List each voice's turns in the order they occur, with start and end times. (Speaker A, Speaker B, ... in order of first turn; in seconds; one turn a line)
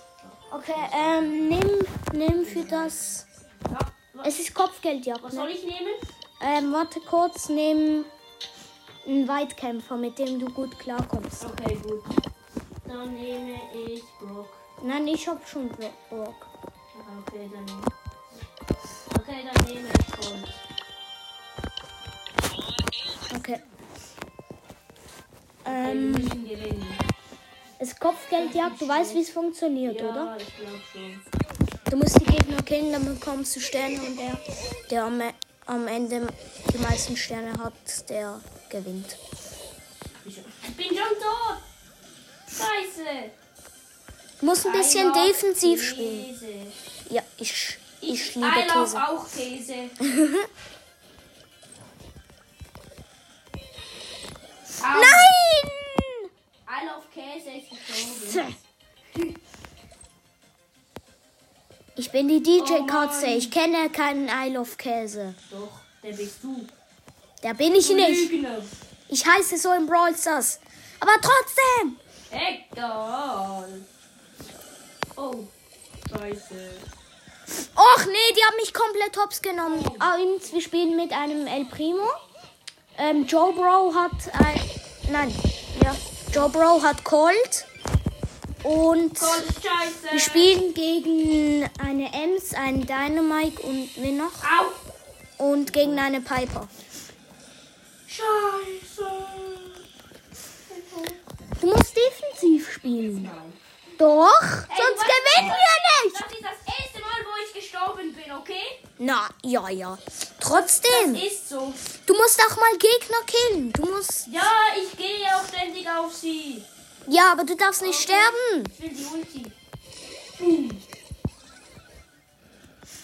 Speaker A: 0.2-1.5
Speaker B: 0.5-3.2
Speaker A: 2.4-3.0
Speaker A: 3.7-4.4
Speaker B: 4.2-5.5
Speaker A: 5.2-6.0
Speaker B: 6.4-8.1
Speaker B: 9.0-11.5
Speaker A: 11.4-12.1
Speaker A: 12.8-14.6
Speaker B: 14.8-16.5
Speaker A: 16.9-17.9
Speaker A: 19.1-20.6
Speaker B: 23.3-23.6
Speaker B: 25.6-26.4
Speaker A: 25.6-27.0
Speaker B: 27.8-30.3
Speaker A: 28.4-29.2
Speaker A: 29.8-31.2
Speaker B: 31.9-39.2
Speaker A: 40.2-41.6
Speaker A: 42.5-43.3
Speaker B: 44.4-46.3
Speaker A: 44.6-46.8
Speaker B: 47.1-49.0
Speaker A: 48.0-50.0
Speaker B: 50.0-50.5
Speaker A: 54.8-55.3
Speaker B: 54.9-56.3
Speaker A: 56.6-58.5
Speaker B: 58.1-58.5
Speaker B: 62.0-65.4
Speaker A: 62.5-63.5
Speaker A: 65.5-66.7
Speaker B: 67.4-68.3
Speaker A: 67.8-68.7
Speaker B: 69.1-72.0
Speaker A: 72.3-73.8
Speaker A: 75.2-75.5
Speaker A: 76.1-76.8
Speaker B: 77.7-82.2
Speaker A: 79.6-80.1
Speaker B: 83.0-87.7
Speaker A: 86.3-86.5
Speaker B: 88.6-89.5
Speaker A: 89.2-90.5
Speaker B: 90.1-94.5
Speaker A: 94.4-94.8
Speaker B: 95.4-96.7
Speaker A: 95.7-96.0
Speaker A: 98.1-99.8
Speaker A: 100.7-101.2
Speaker B: 101.6-103.3
Speaker A: 103.0-103.6
Speaker B: 104.0-106.3
Speaker A: 104.7-108.8
Speaker B: 109.0-111.3
Speaker A: 110.5-111.8
Speaker B: 112.0-114.3
Speaker A: 114.2-116.7
Speaker B: 117.1-118.7
Speaker A: 117.8-119.5
Speaker A: 120.4-120.8